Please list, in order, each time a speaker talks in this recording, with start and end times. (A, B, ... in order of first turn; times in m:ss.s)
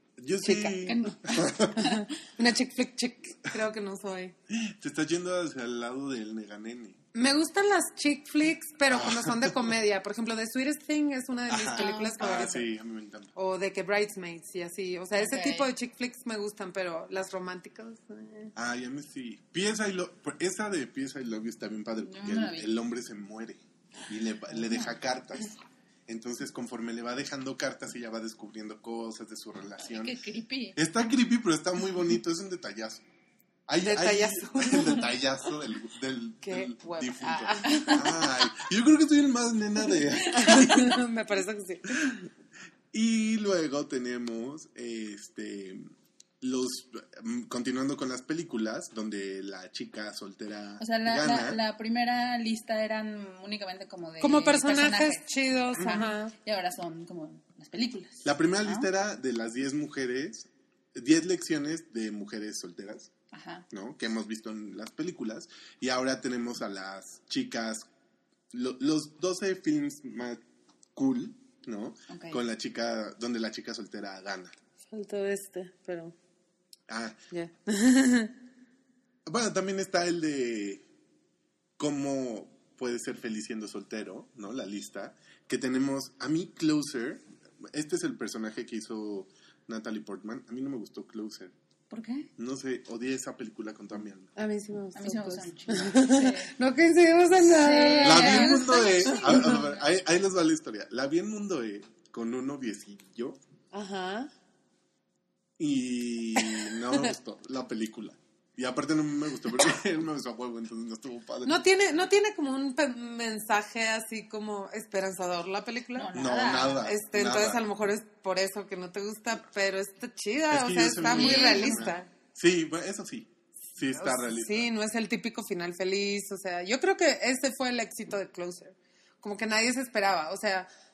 0:00.2-0:01.9 A
0:00.4-0:00.9 B
0:00.8-0:02.0 C
0:01.8-0:04.3 B
0:04.5-0:07.0 A
0:07.1-0:12.7 B
0:08.9-0:09.5 A
0:11.5-0:13.3 A
0:11.7-0:12.6 C
0:13.3-0:18.5 B
0:15.1-0:15.7 C
0:18.5-0:30.2 A
0:22.0-0:22.7 C
0:24.5-0:25.0 C
0:29.8-0:30.8 C
0:30.7-0:33.0 A
0:33.7-0:41.0 A
0:33.8-0:35.1 B
0:36.4-0:38.1 B
0:37.6-0:38.3 C
0:40.0-0:40.9 C
0:40.4-0:42.2 B
0:42.9-0:51.6 A
0:50.8-0:58.9 C
0:54.2-0:56.3 B
0:58.2-1:03.1 A
1:03.3-1:03.6 C
1:03.7-1:07.9 A
1:08.5-1:10.4 A
1:10.9-1:14.6 A
1:12.1-1:12.4 C
1:14.9-1:16.1 B
1:16.9-1:17.2 A
1:17.3-1:18.3 B
1:19.2-1:20.8 A
1:21.8-1:31.5 A
1:31.9-1:32.3 C
1:32.4-1:34.3 A
1:34.4-1:39.5 B
1:34.9-1:36.5 C
1:37.4-1:39.9 C
1:38.0-1:43.4 A
1:43.7-1:44.3 B
1:45.6-1:51.7 A
1:46.5-1:47.1 B
1:51.4-1:56.1 B
1:55.9-1:56.9 C
1:56.1-1:57.6 A
1:56.8-2:02.1 B
2:00.5-2:04.7 A
2:01.0-2:02.0 C
2:03.9-2:10.7 B